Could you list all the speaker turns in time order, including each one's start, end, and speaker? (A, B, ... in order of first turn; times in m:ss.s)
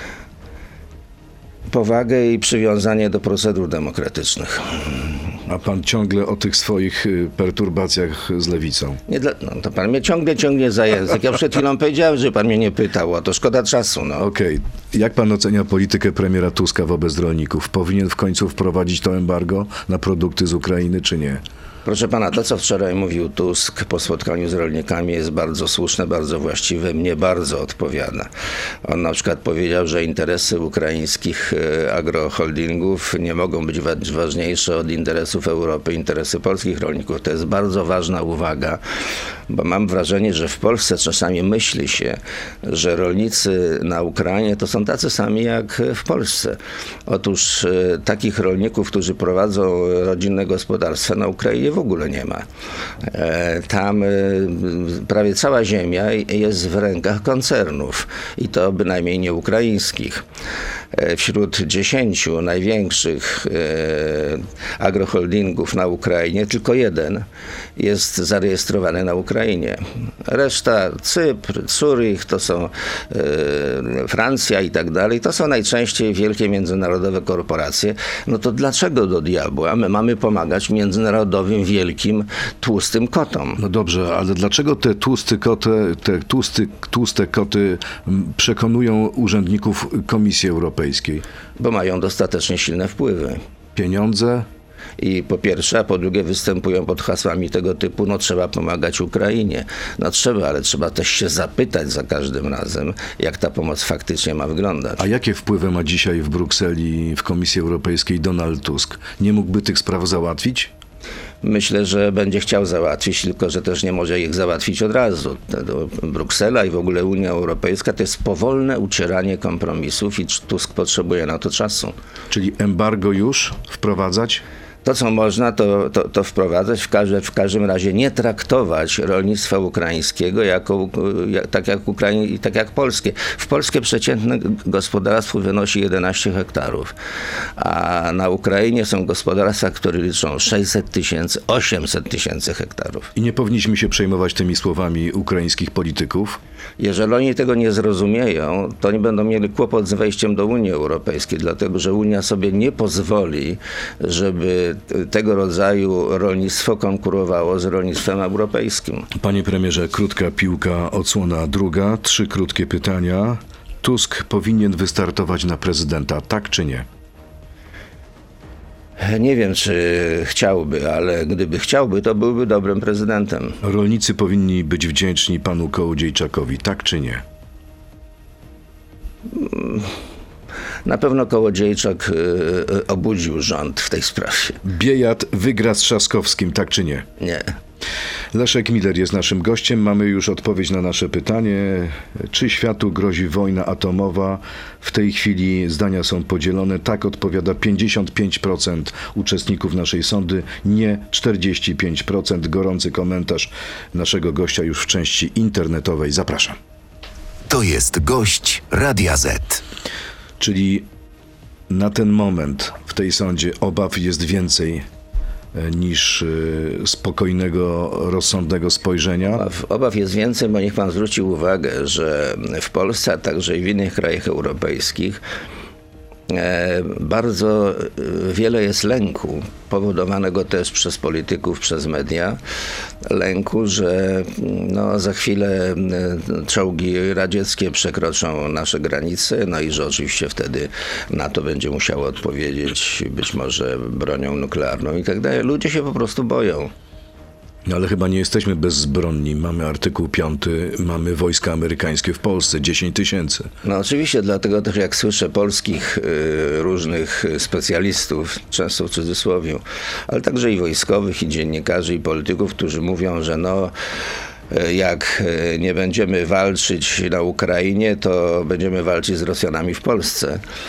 0:01.7-0:05.3 A
0:05.5-0:09.0 B
0:09.1-0:14.2 A
0:14.2-0:21.4 B
0:21.8-0:28.3 A
0:28.8-0:38.8 A
0:39.5-0:52.4 A
0:53.0-1:00.2 A
1:00.9-1:23.6 A
1:23.6-1:31.2 B
1:31.6-1:33.4 A
1:33.7-1:34.5 B
1:35.0-1:45.0 A
1:45.0-1:50.7 B
1:51.4-2:02.0 A
2:02.3-2:04.4 B
2:04.8-2:16.9 A
2:17.6-2:23.1 A
2:23.1-2:26.4 B
2:26.8-2:39.1 A
2:39.1-2:46.8 B
2:49.0-2:53.6 A
2:53.6-2:57.2 B
2:59.3-3:00.0 A
3:00.8-3:04.6 A
3:04.6-3:07.0 B
3:07.2-3:07.5 A
3:08.3-3:26.6 B
3:27.5-3:29.6 C
3:30.4-3:30.8 B
3:31.7-3:34.8 B
3:35.5-3:39.4 B
3:39.3-3:45.2 A
3:46.3-3:52.4 A
3:53.0-4:06.7 A
4:07.6-4:13.5 B
4:13.6-4:23.7 A
4:24.5-4:30.4 A